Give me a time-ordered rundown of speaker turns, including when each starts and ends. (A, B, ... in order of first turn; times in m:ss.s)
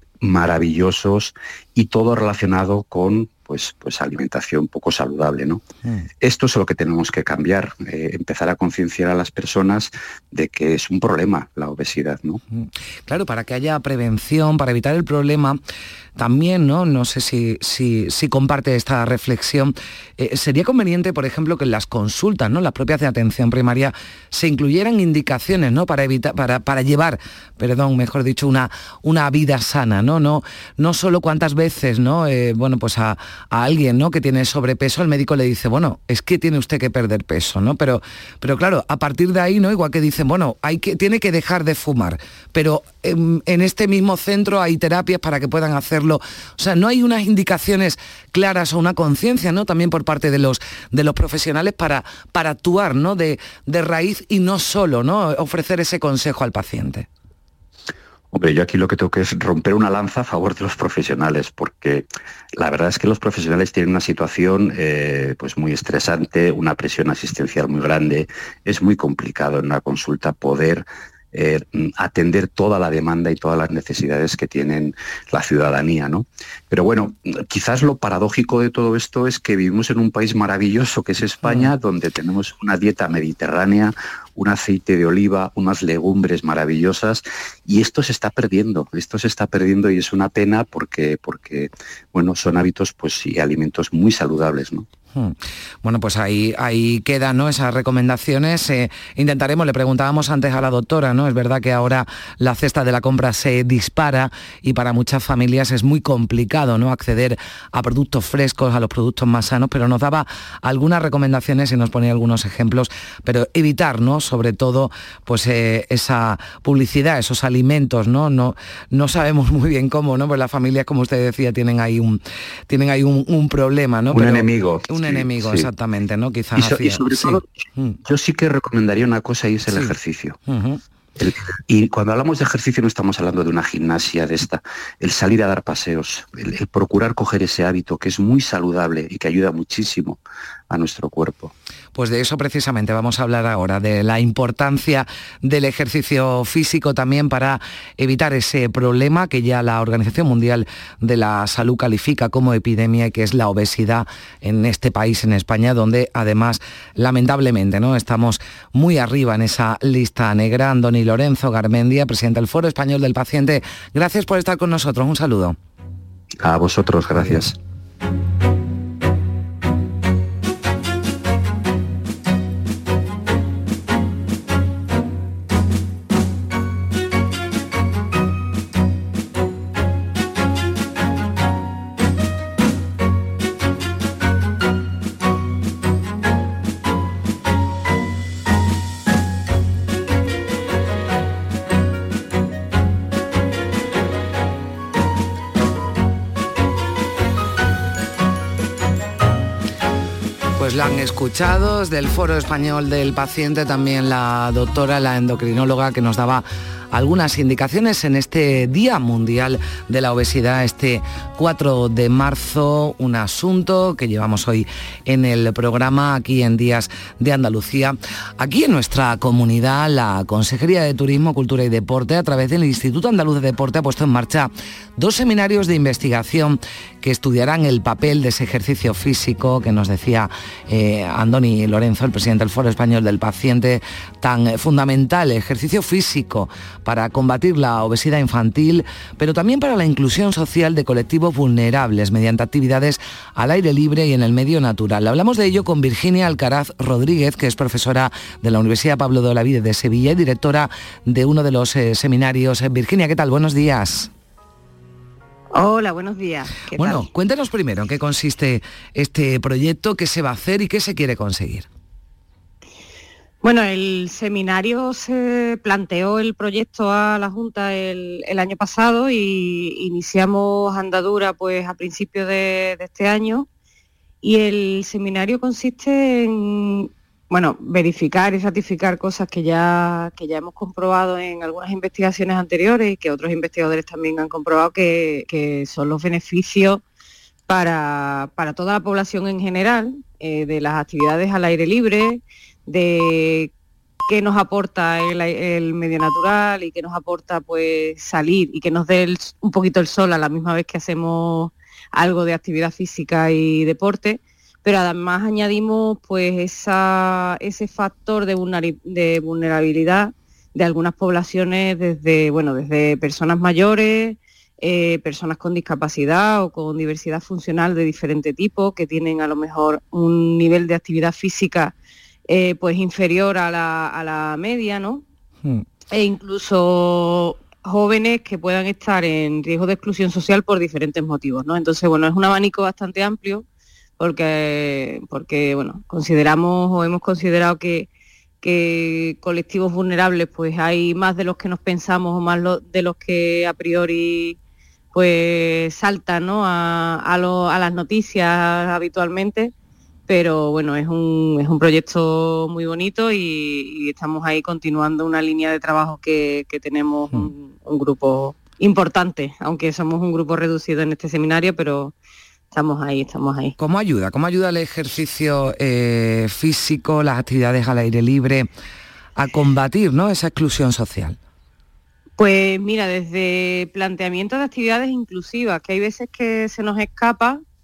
0:00.2-0:05.6 A
0:06.2-0:12.4 A
0:12.6-0:15.6 B
0:16.2-0:57.1 B
0:58.3-1:02.1 A
1:02.6-1:34.9 A
1:35.2-2:08.0 B
2:04.1-2:05.7 A
2:06.6-2:10.4 A
2:09.7-2:09.9 B
2:10.5-2:10.8 B
2:11.2-2:21.5 A
2:22.0-2:45.6 B
2:46.4-2:47.6 A
3:20.6-4:14.1 B
4:15.5-4:17.1 C
4:16.7-4:21.7 B
4:23.4-4:33.5 C
4:34.2-4:46.8 C
4:47.5-4:53.5 C
4:54.1-5:21.7 C
5:22.3-5:25.0 C
5:25.9-5:33.4 C
5:34.0-5:37.9 C
5:38.4-5:44.4 C
5:44.9-5:49.5 C
5:50.1-6:01.9 C
6:02.5-6:03.6 C
6:03.6-6:08.5 B
6:09.2-6:11.2 B
6:12.2-6:17.4 C